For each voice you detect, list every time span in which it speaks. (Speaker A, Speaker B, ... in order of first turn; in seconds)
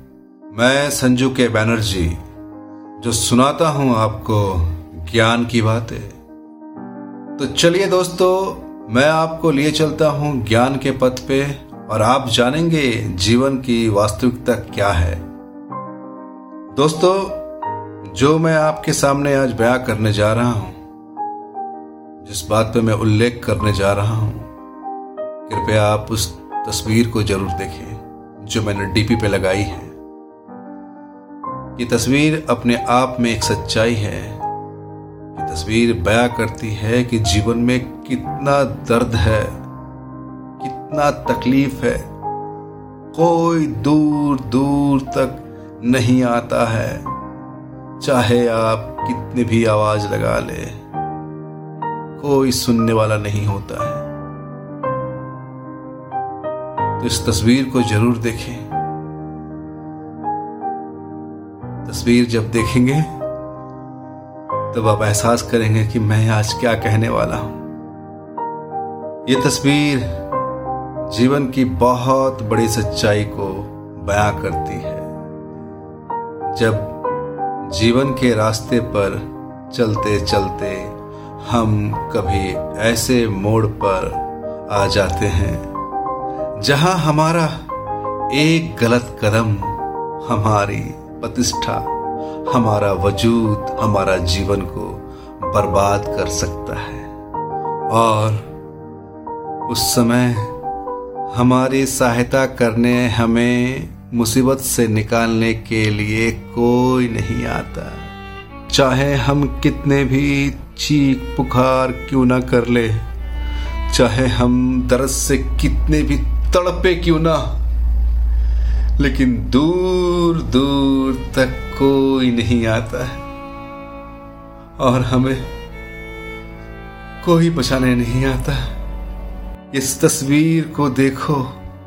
Speaker A: 0.5-2.2, 3.0-6.2, 7.4-15.2, 16.8-17.4, 18.1-20.8, 22.2-24.5, 25.5-29.9, 31.8-34.4, 35.3-39.6, 40.6-42.1, 43.1-47.0, 48.0-50.8, 52.2-54.0, 57.0-58.7, 61.8-63.1, 64.7-67.6, 69.2-70.2, 71.1-75.1, 76.5-77.0, 77.6-85.7, 86.6-87.7, 88.3-91.9, 92.5-97.1, 97.9-98.5, 99.7-100.5, 101.3-108.1, 108.7-113.1, 113.9-117.6, 119.0-123.2, 124.8-125.5, 127.2-128.7, 129.7-131.5